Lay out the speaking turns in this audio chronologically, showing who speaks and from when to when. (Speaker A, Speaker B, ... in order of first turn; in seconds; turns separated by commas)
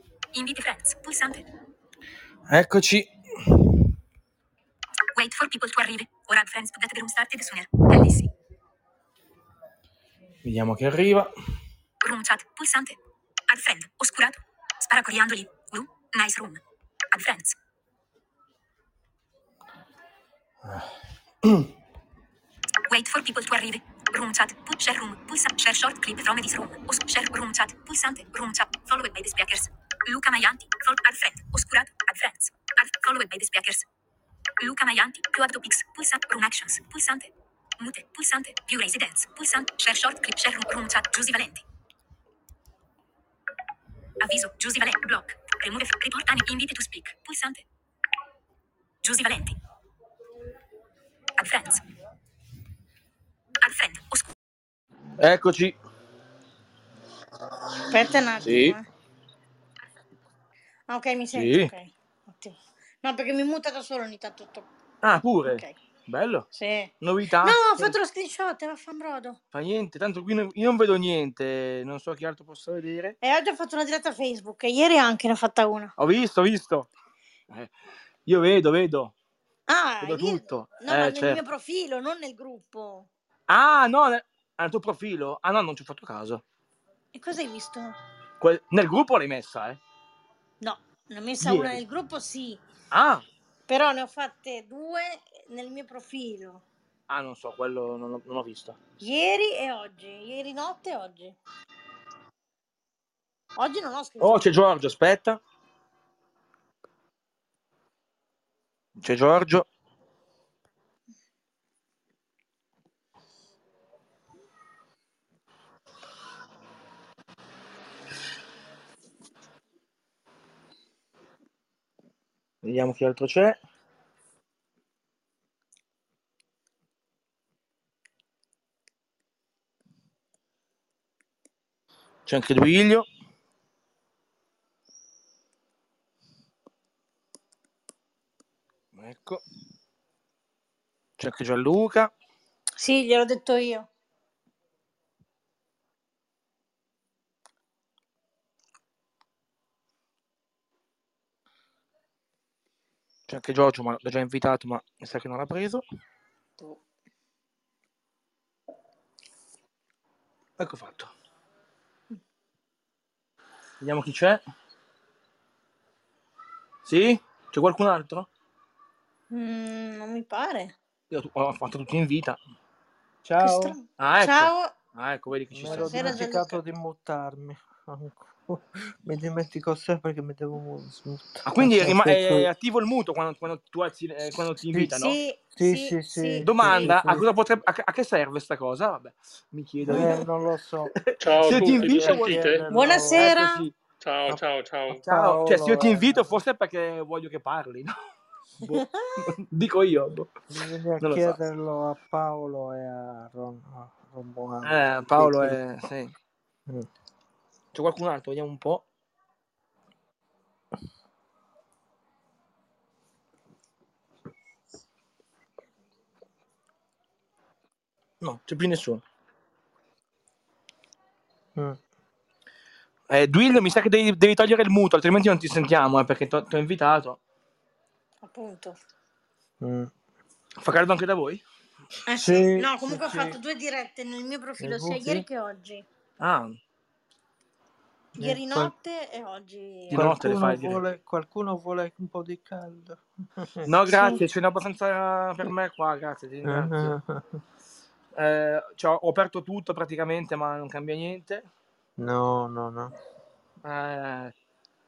Speaker A: 0.3-1.4, Speaker B: 2.5-3.8, Speaker A: 5.1-8.3, Speaker B: 10.4-11.3, Speaker A: 12.0-13.0, Speaker A: 13.5-16.6, Speaker A: 17.1-17.6, Speaker B: 21.4-21.7, Speaker A: 22.9-33.9, Speaker A: 34.6-41.6, Speaker A: 44.2-47.6, Speaker A: 49.0-49.6, Speaker A: 51.4-51.8, Speaker A: 53.6-54.3, Speaker B: 55.2-55.8, Speaker C: 57.9-58.8, Speaker B: 58.4-58.8, Speaker C: 60.9-64.7, Speaker B: 61.3-61.7, Speaker B: 65.0-66.5, Speaker C: 65.5-65.8, Speaker C: 66.5-69.4, Speaker B: 67.0-67.9, Speaker B: 69.5-73.2, Speaker C: 73.2-75.9, Speaker B: 76.0-76.9, Speaker B: 78.2-79.1, Speaker C: 79.7-83.1, Speaker B: 80.0-81.4, Speaker B: 83.5-86.4, Speaker C: 87.1-88.0, Speaker B: 88.4-89.8, Speaker C: 90.6-92.6, Speaker B: 91.4-91.8, Speaker B: 92.9-93.2, Speaker C: 93.7-96.6, Speaker B: 97.1-98.8, Speaker C: 99.0-101.3, Speaker C: 103.6-104.4, Speaker B: 104.2-105.4, Speaker B: 109.0-109.7, Speaker B: 122.6-123.6, Speaker B: 132.2-133.1, Speaker B: 138.9-139.4, Speaker B: 141.2-142.1, Speaker C: 142.8-143.9, Speaker B: 153.3-155.8, Speaker B: 160.6-161.1, Speaker B: 163.8-164.4, Speaker B: 166.8-168.3, Speaker C: 169.3-170.8, Speaker B: 171.1-172.4, Speaker D: 173.2-173.8, Speaker C: 173.4-174.7, Speaker B: 174.0-176.2, Speaker D: 175.5-182.5, Speaker C: 175.7-176.6, Speaker B: 181.4-185.2, Speaker C: 184.9-186.9, Speaker D: 185.6-187.2, Speaker B: 186.4-190.2, Speaker D: 189.8-193.3, Speaker C: 189.9-190.2, Speaker B: 190.9-193.7, Speaker E: 191.2-192.7, Speaker C: 192.7-193.7, Speaker E: 194.0-195.0, Speaker B: 194.3-197.9, Speaker D: 195.1-196.4, Speaker B: 198.6-200.3, Speaker C: 198.6-199.3, Speaker D: 200.5-205.6, Speaker B: 201.0-201.4, Speaker B: 204.6-206.1, Speaker B: 207.7-208.8, Speaker B: 218.2-219.0, Speaker B: 223.1-227.2, Speaker C: 228.2-228.8, Speaker D: 229.6-229.9, Speaker B: 230.6-231.4, Speaker C: 232.1-235.8, Speaker D: 232.1-233.4, Speaker D: 234.6-235.2, Speaker B: 236.2-236.6, Speaker D: 238.2-238.7, Speaker C: 238.2-240.1, Speaker D: 239.9-243.7, Speaker B: 239.9-240.8, Speaker B: 243.7-246.9, Speaker C: 243.9-244.2, Speaker D: 246.4-247.4, Speaker B: 248.2-251.4, Speaker D: 252.0-252.9, Speaker B: 253.6-254.3